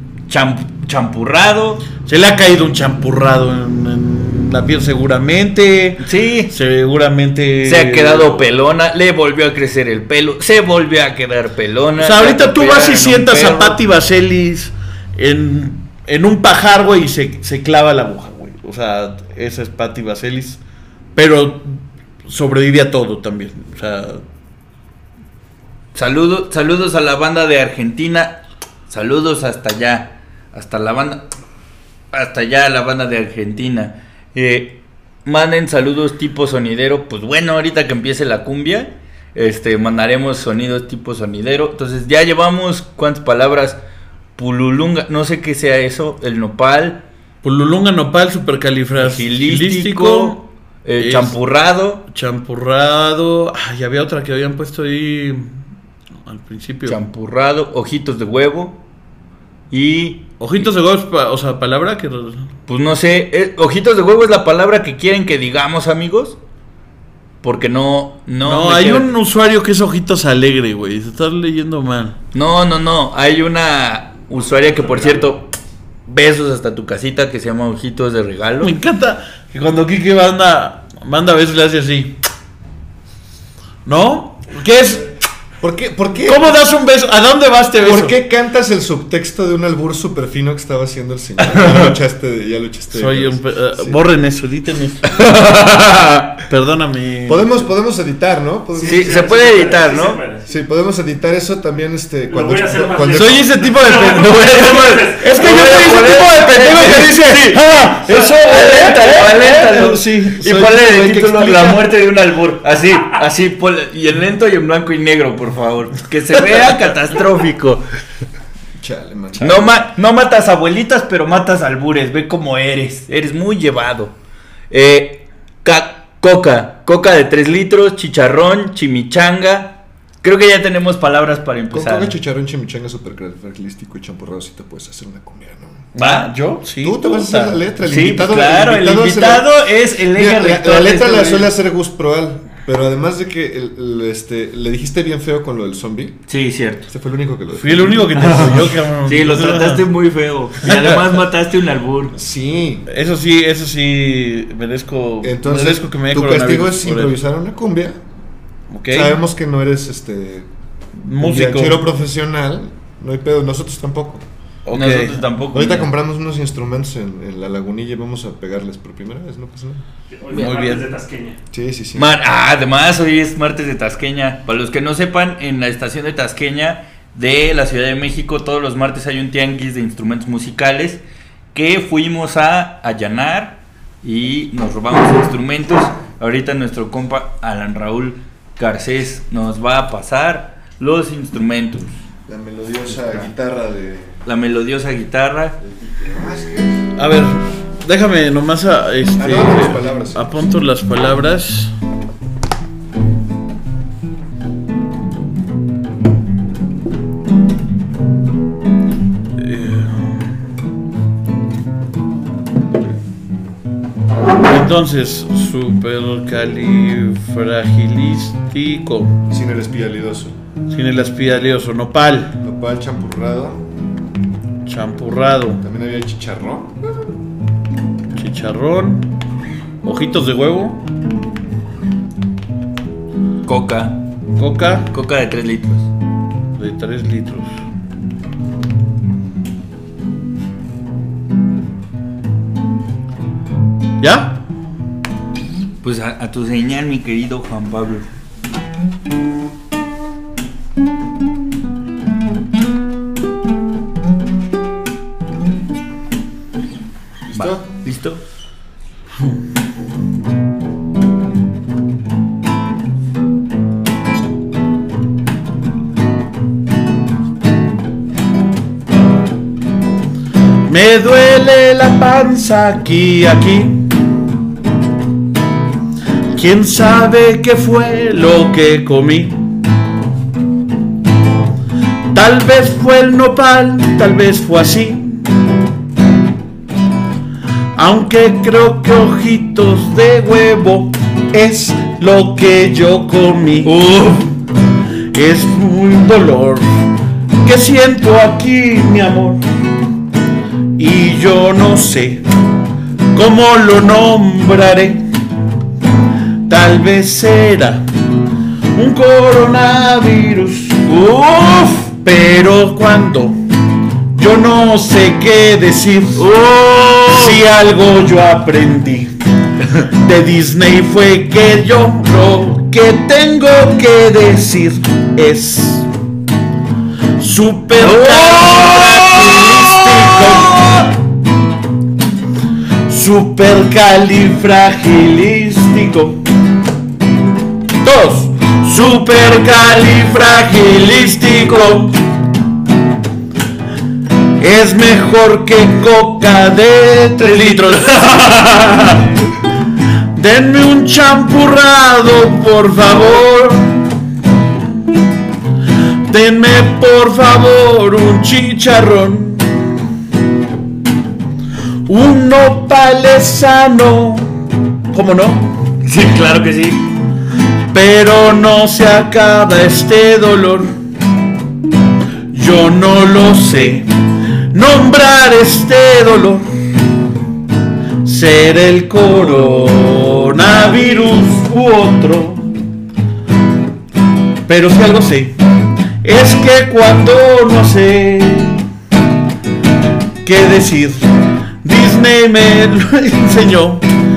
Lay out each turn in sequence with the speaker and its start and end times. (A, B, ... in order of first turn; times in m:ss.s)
0:00.3-0:01.8 A
0:02.0-0:08.5 B
0:06.0-0:06.5 A
0:07.6-0:13.8 A
0:12.0-0:20.6 B
0:21.2-0:24.2 B
0:25.9-0:31.2 A
0:32.1-0:43.8 A
0:44.4-0:47.0 A
0:47.4-0:50.5 B
0:49.0-0:52.0 A
0:51.0-0:51.4 B
0:52.0-0:55.6 B
0:56.2-0:57.0 B
0:56.8-0:58.8 A
0:59.7-1:00.7 A
1:00.4-1:02.5 B
1:02.7-1:06.4 A
1:07.4-1:09.1 A
1:08.4-1:12.2 B
1:12.3-1:15.5 A
1:16.1-1:18.7 A
1:18.6-1:22.1 B
1:23.8-1:25.1 B
1:25.6-1:26.6 C
1:26.2-1:28.2 B
1:27.8-1:34.0 C
1:31.4-1:31.9 A
1:32.9-1:35.6 B
1:35.3-1:36.3 A
1:36.3-1:37.6 B
1:37.2-1:39.4 C
1:38.8-1:40.5 D
1:38.8-1:40.2 A
1:40.5-1:43.4 C
1:42.3-1:45.3 D
1:43.1-1:51.9 B
1:43.7-1:57.8 A
1:58.8-1:59.8 C
1:59.4-2:04.1 A
2:04.7-2:12.1 A
2:11.7-2:15.8 C
2:15.9-2:17.6 B
2:16.0-2:16.3 A
2:16.8-2:19.5 C
2:17.8-2:21.5 A
2:20.1-2:26.2 C
2:26.3-2:26.9 A
2:26.9-2:28.6 C
2:27.5-2:29.8 B
2:28.2-2:32.1 A
2:30.7-2:31.0 B
2:32.1-2:32.8 C
2:32.9-2:37.2 B
2:35.2-2:38.0 C
2:38.7-2:39.2 B
2:38.9-2:40.5 C
2:41.0-2:41.8 B
2:41.2-2:44.2 C
2:44.6-2:45.2 B
2:44.7-2:45.9 A
2:45.5-2:49.8 C
2:50.1-2:51.4 D
2:50.3-2:50.9 B
2:51.5-2:52.1 C
2:52.0-3:01.0 A
3:01.5-3:12.0 A
3:12.3-3:14.2 C
3:14.2-3:15.6 A
3:15.6-3:16.8 C
3:17.0-3:21.7 B
3:19.2-3:20.4 C
3:29.4-3:30.3 B
3:34.4-3:39.2 B
3:39.3-3:40.4 C
3:40.7-3:42.3 B
3:42.4-3:43.6 C
3:44.6-3:45.6 B
3:45.6-3:46.8 C
3:48.1-3:49.1 B
3:49.8-3:50.8 B
3:53.4-3:54.0 A
3:54.4-3:54.9 B
3:54.9-3:55.9 A
3:56.6-3:57.5 B
4:04.0-4:04.4 B
4:05.8-4:08.1 A
4:17.3-4:17.6 C
4:17.3-4:18.2 A
4:30.7-4:33.9 B
4:36.3-4:39.4 B
4:42.1-4:45.3 B
4:47.8-4:53.8 B
4:53.6-4:54.3 A
4:55.1-4:56.7 B
4:57.4-4:59.4 B
5:00.8-5:02.2 B
5:03.1-5:05.0 B
5:06.5-5:07.8 B
5:08.7-5:10.8 B
5:10.8-5:11.9 A
5:11.9-5:13.4 B
5:14.1-5:16.2 B
5:16.2-5:17.4 A
5:17.1-5:19.1 B
5:19.8-5:25.9 B
5:27.2-5:31.0 B
5:27.8-5:30.7 A
5:32.9-5:36.2 B
5:37.8-5:42.0 B
5:44.4-5:49.0 B
5:47.2-5:48.1 A
5:50.1-5:53.8 B
5:56.1-5:59.5 B
6:01.8-6:04.3 B
6:04.9-6:05.6 B
6:05.8-6:06.8 A
6:07.7-6:10.7 B
6:12.3-6:13.9 B
6:14.5-6:16.4 B
6:18.0-6:22.4 B
6:24.5-6:25.3 B
6:26.0-6:28.6 B
6:30.2-6:31.0 B
6:31.6-6:33.8 B